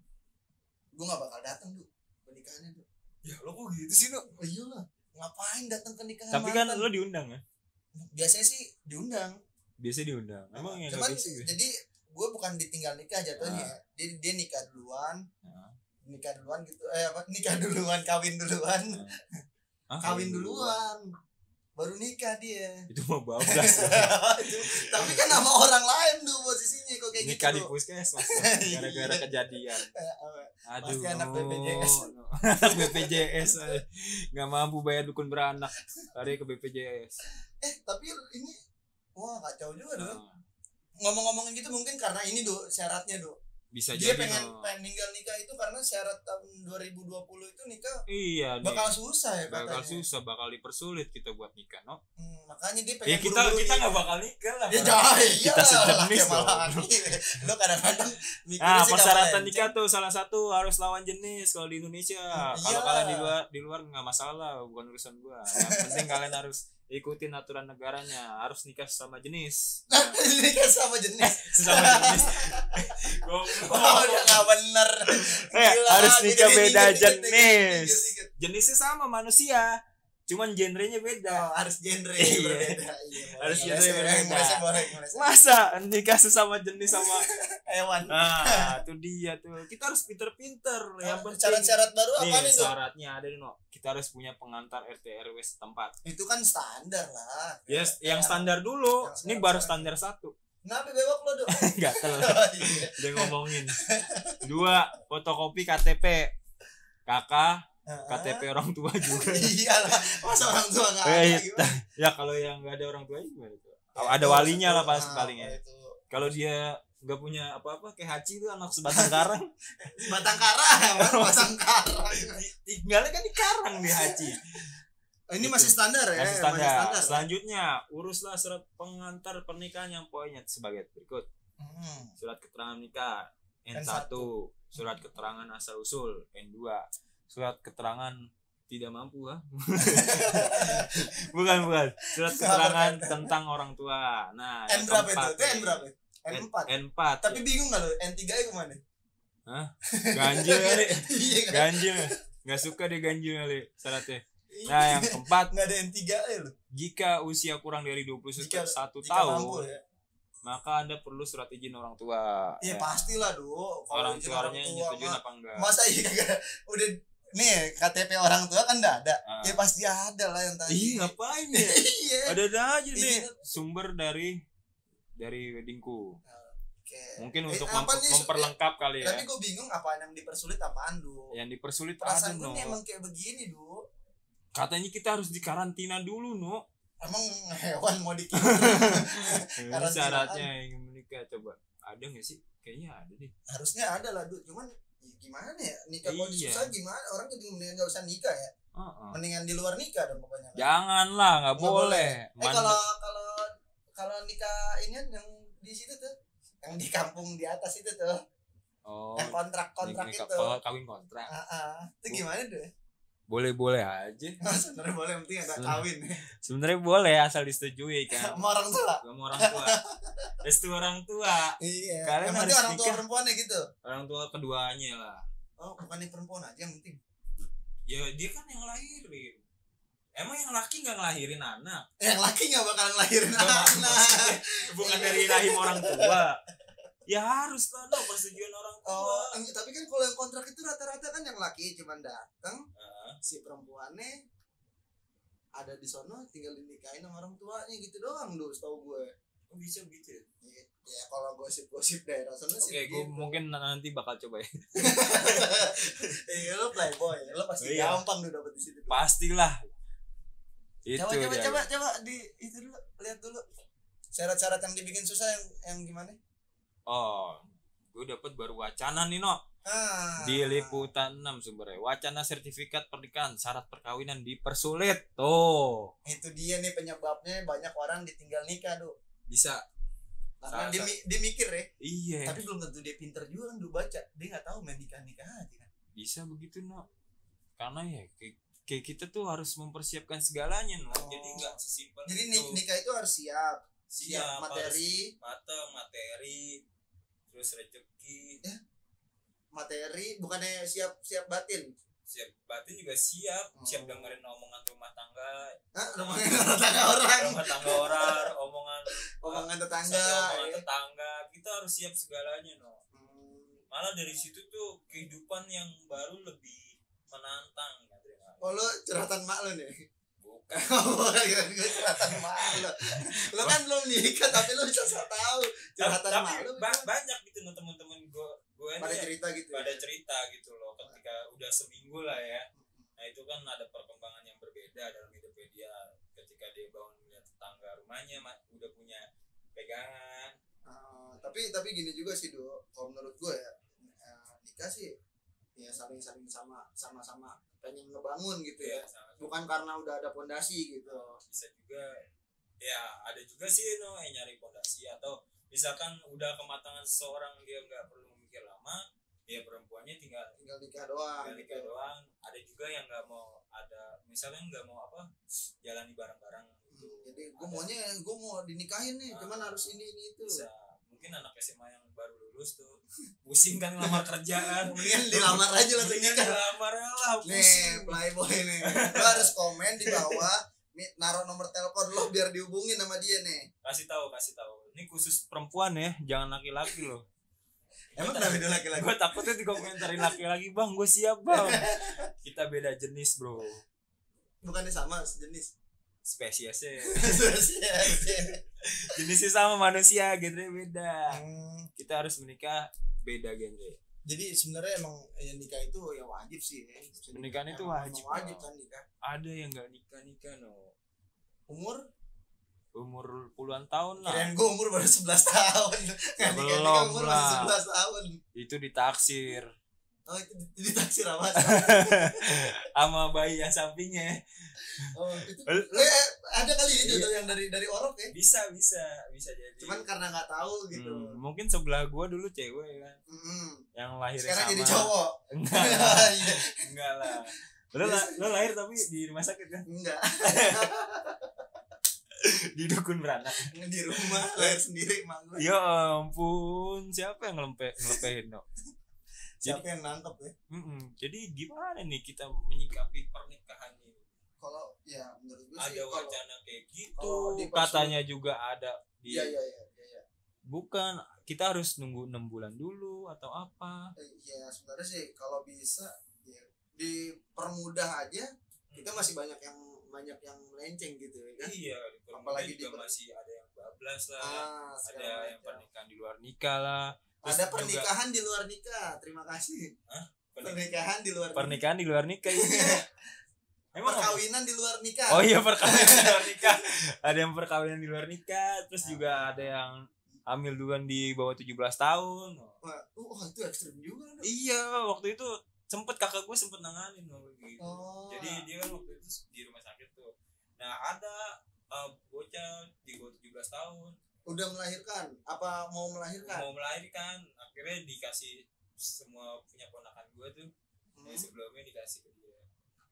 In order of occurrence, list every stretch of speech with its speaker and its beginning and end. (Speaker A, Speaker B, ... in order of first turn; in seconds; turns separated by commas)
Speaker A: 0.9-2.9, Speaker B: 3.2-4.3, Speaker A: 4.3-6.9, Speaker B: 6.3-7.4, Speaker A: 8.0-9.4, Speaker B: 9.8-11.5, Speaker A: 10.5-15.2, Speaker B: 13.4-13.8, Speaker B: 15.4-15.7, Speaker A: 16.1-19.4, Speaker B: 18.9-19.2, Speaker B: 19.9-20.8, Speaker A: 20.0-21.0, Speaker A: 21.8-22.8, Speaker B: 22.9-25.2, Speaker A: 23.4-32.1, Speaker B: 27.2-29.9, Speaker B: 30.7-37.2, Speaker A: 32.6-33.8, Speaker A: 37.6-38.6, Speaker A: 39.2-40.2, Speaker B: 40.0-40.4, Speaker A: 41.0-43.4, Speaker B: 43.7-44.7, Speaker A: 43.9-48.0, Speaker B: 48.1-48.9, Speaker A: 48.6-50.0, Speaker B: 49.5-52.0, Speaker A: 52.2-53.9, Speaker B: 53.1-57.2, Speaker A: 54.7-59.7, Speaker B: 58.6-70.2, Speaker A: 62.4-63.4, Speaker A: 65.5-66.3, Speaker A: 69.9-72.9, Speaker B: 71.2-74.5, Speaker A: 73.5-78.3, Speaker B: 75.1-81.5, Speaker A: 81.3-85.3, Speaker B: 82.2-82.8, Speaker B: 83.4-87.3, Speaker A: 86.9-88.7, Speaker B: 88.1-96.0, Speaker A: 91.0-92.7, Speaker A: 96.0-99.9, Speaker B: 97.7-100.3, Speaker A: 100.6-104.7, Speaker B: 101.5-103.8, Speaker B: 104.4-106.3, Speaker B: 107.1-109.5, Speaker A: 107.9-108.5, Speaker A: 109.0-111.7, Speaker B: 111.0-115.6, Speaker A: 114.0-116.3, Speaker B: 116.1-120.3, Speaker A: 118.9-122.4, Speaker B: 121.0-121.5, Speaker B: 122.1-124.8, Speaker A: 123.8-124.3, Speaker A: 125.3-127.2, Speaker B: 125.4-131.3, Speaker A: 131.6-132.2, Speaker B: 132.2-147.4, Speaker A: 133.7-134.3, Speaker A: 139.8-141.3, Speaker A: 142.2-143.3, Speaker A: 144.7-148.8, Speaker B: 149.5-155.5, Speaker A: 149.9-152.1, Speaker A: 154.5-156.6, Speaker B: 156.7-159.7, Speaker A: 158.4-159.8, Speaker B: 160.4-163.2, Speaker A: 162.6-172.4, Speaker B: 163.9-165.7, Speaker B: 169.2-169.6, Speaker B: 170.7-174.4, Speaker A: 172.9-173.3, Speaker B: 175.2-176.2, Speaker A: 176.3-181.3, Speaker B: 177.2-179.3, Speaker B: 181.3-182.8, Speaker A: 182.0-183.8, Speaker B: 184.6-186.6, Speaker A: 187.0-190.5, Speaker B: 188.4-193.3, Speaker A: 193.5-198.5, Speaker B: 196.0-196.7, Speaker B: 198.8-199.2, Speaker A: 199.1-200.7, Speaker B: 200.6-202.8, Speaker A: 201.6-208.2, Speaker B: 208.9-211.3, Speaker A: 209.2-210.6, Speaker A: 211.3-212.7, Speaker B: 213.3-214.4, Speaker A: 214.4-216.2, Speaker B: 215.5-215.8, Speaker B: 216.4-218.4, Speaker A: 218.1-220.3, Speaker B: 219.0-219.8, Speaker B: 220.4-223.0, Speaker A: 221.3-223.7, Speaker B: 223.8-225.2, Speaker A: 225.6-227.0, Speaker B: 227.9-229.4, Speaker B: 230.2-231.9, Speaker A: 232.0-236.2, Speaker B: 233.3-236.4, Speaker B: 237.1-239.4, Speaker A: 238.8-242.7, Speaker B: 242.8-243.2, Speaker A: 243.2-244.2, Speaker A: 245.6-249.1, Speaker B: 249.5-250.3, Speaker A: 250.4-253.4, Speaker B: 252.6-256.2, Speaker A: 254.8-259.0, Speaker B: 257.6-258.0, Speaker B: 258.9-259.6, Speaker B: 260.9-261.7, Speaker A: 261.0-263.4, Speaker A: 264.1-266.2, Speaker B: 266.9-269.4, Speaker A: 269.6-270.9, Speaker B: 270.2-275.9, Speaker A: 276.1-278.9, Speaker B: 279.3-279.6, Speaker A: 280.4-281.7, Speaker B: 280.5-281.0, Speaker B: 281.8-282.4, Speaker A: 282.2-285.7, Speaker B: 286.0-286.9, Speaker B: 287.6-292.6, Speaker A: 290.9-295.1, Speaker B: 293.9-296.6, Speaker B: 297.3-298.4, Speaker A: 299.5-301.7, Speaker B: 302.1-306.5, Speaker A: 303.6-304.2, Speaker A: 305.8-308.3, Speaker B: 307.2-312.8, Speaker A: 309.2-310.6, Speaker A: 312.9-313.6, Speaker B: 313.7-318.5, Speaker A: 318.4-319.7, Speaker B: 320.2-321.0, Speaker A: 320.6-326.9, Speaker B: 321.7-323.6, Speaker B: 325.8-340.4, Speaker A: 328.8-329.8, Speaker A: 332.6-332.9, Speaker A: 340.7-344.9, Speaker A: 345.6-351.2, Speaker B: 348.6-349.4, Speaker B: 350.9-352.0, Speaker B: 352.6-360.3, Speaker A: 360.4-361.7, Speaker B: 361.2-365.1, Speaker B: 365.6-367.7, Speaker A: 366.7-370.4, Speaker B: 369.1-378.1, Speaker A: 373.8-376.4, Speaker A: 377.2-383.5, Speaker B: 378.6-380.3, Speaker B: 383.6-387.1, Speaker A: 388.0-390.2, Speaker B: 388.0-393.6, Speaker A: 391.3-392.1, Speaker A: 394.4-395.5, Speaker B: 396.1-401.2, Speaker A: 396.9-398.4, Speaker A: 401.1-401.7, Speaker B: 401.8-403.8, Speaker A: 404.1-408.9, Speaker B: 407.1-408.5, Speaker B: 409.0-410.7, Speaker A: 411.5-411.8, Speaker B: 412.8-414.3, Speaker A: 414.0-418.1, Speaker B: 416.2-417.6, Speaker B: 418.4-419.5, Speaker A: 420.1-422.5, Speaker B: 421.4-424.9, Speaker A: 424.8-428.1, Speaker B: 425.5-425.9, Speaker B: 426.8-427.1, Speaker B: 428.1-429.9, Speaker A: 429.6-431.2, Speaker B: 430.7-433.0, Speaker A: 433.1-433.6, Speaker B: 433.8-439.7, Speaker A: 434.2-437.2, Speaker A: 437.8-438.2, Speaker A: 439.7-441.6, Speaker B: 440.2-440.7, Speaker B: 442.2-444.6, Speaker A: 443.4-445.5, Speaker B: 445.4-448.4, Speaker A: 449.4-450.3, Speaker B: 450.5-454.2, Speaker A: 454.4-456.2, Speaker B: 455.6-459.3, Speaker A: 457.0-458.0, Speaker A: 459.1-460.0, Speaker B: 460.5-463.9, Speaker A: 464.0-471.5, Speaker B: 468.7-469.0, Speaker B: 471.4-477.9, Speaker A: 472.1-472.9, Speaker A: 474.2-475.7, Speaker A: 477.2-479.7, Speaker B: 479.9-480.6, Speaker A: 480.4-481.6, Speaker B: 481.4-482.8, Speaker A: 482.3-482.9, Speaker B: 483.8-484.2, Speaker A: 483.8-486.6, Speaker B: 485.1-492.6, Speaker A: 488.8-489.5, Speaker A: 492.6-494.3, Speaker B: 494.2-504.0, Speaker A: 497.6-498.4, Speaker A: 504.3-506.5, Speaker B: 506.2-510.5, Speaker A: 510.9-511.3, Speaker B: 511.1-512.5